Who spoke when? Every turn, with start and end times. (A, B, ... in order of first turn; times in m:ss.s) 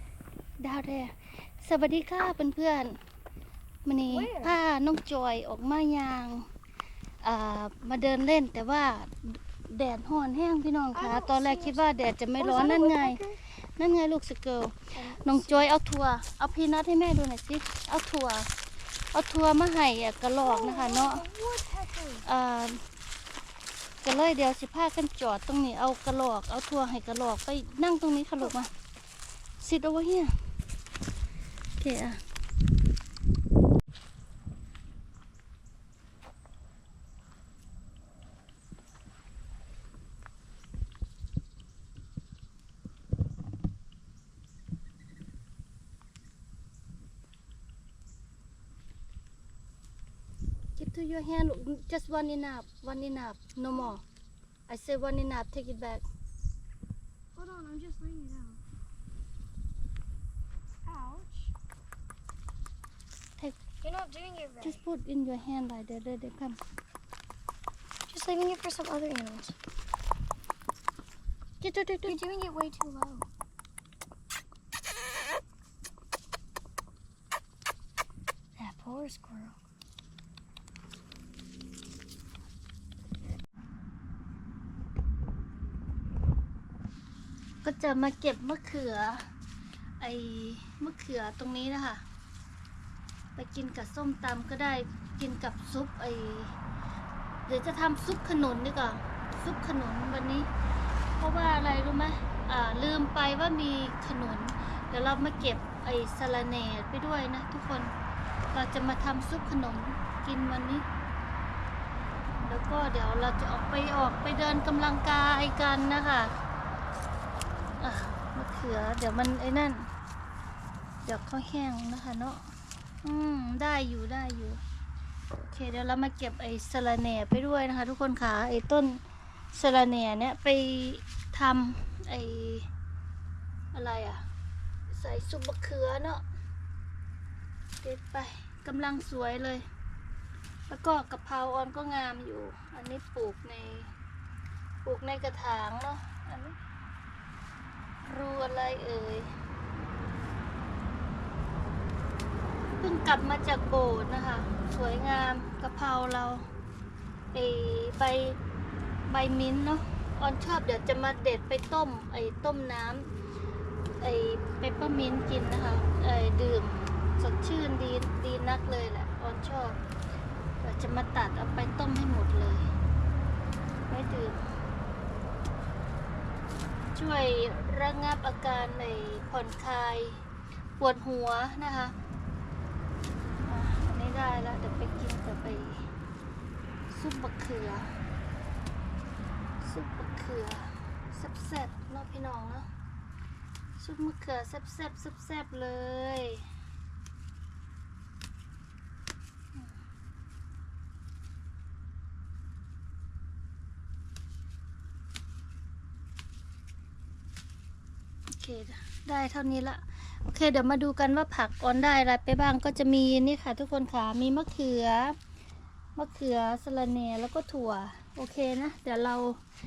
0:00.6-0:03.0 A
0:03.8-0:06.5 A
0:04.1-0:04.6 B
0:07.2-0:18.5 A
0:10.9-0:13.4 B
0:15.0-0:15.7 B
0:19.1-0:21.2 A
0:20.4-0:22.2 B
0:22.2-0:22.8 A
0:24.0-0:28.7 A
0:29.6-0:30.4 A
0:31.8-0:32.2 A
0:50.8-0:54.0 A
0:54.7-0:56.0 A
0:57.4-0:58.6 B
1:00.8-1:01.5 B
1:03.4-1:03.6 A
1:03.8-1:04.8 B
1:04.6-1:06.6 A
1:08.1-1:09.6 B
1:11.6-1:12.2 A
1:12.0-1:13.3 B
1:18.6-1:19.6 B
1:27.6-1:29.2 A
1:30.0-1:32.0 A
1:33.4-1:36.5 A
1:37.5-1:40.5 A
1:41.2-1:47.9 A
1:48.5-1:50.8 A
1:52.4-1:56.3 A
1:57.8-1:59.9 A
2:01.0-2:02.4 A
2:03.0-2:04.6 A
2:05.4-2:09.0 A
2:09.5-2:12.7 A
2:13.7-2:14.2 A
2:14.9-2:16.2 A
2:17.8-2:19.6 A
2:20.7-2:23.9 A
2:24.8-2:26.6 A
2:28.0-2:29.3 A
2:32.8-2:36.5 A
2:37.3-2:38.4 A
2:39.1-2:43.1 A
2:44.0-2:49.8 A
2:50.6-2:52.6 A
2:53.9-2:54.4 A
2:56.9-3:00.2 A
3:00.8-3:01.9 A
3:03.4-3:05.8 A
3:06.9-3:07.9 A
3:09.6-3:12.7 A
3:13.8-3:16.4 A
3:28.3-3:35.2 A
3:36.0-3:39.4 A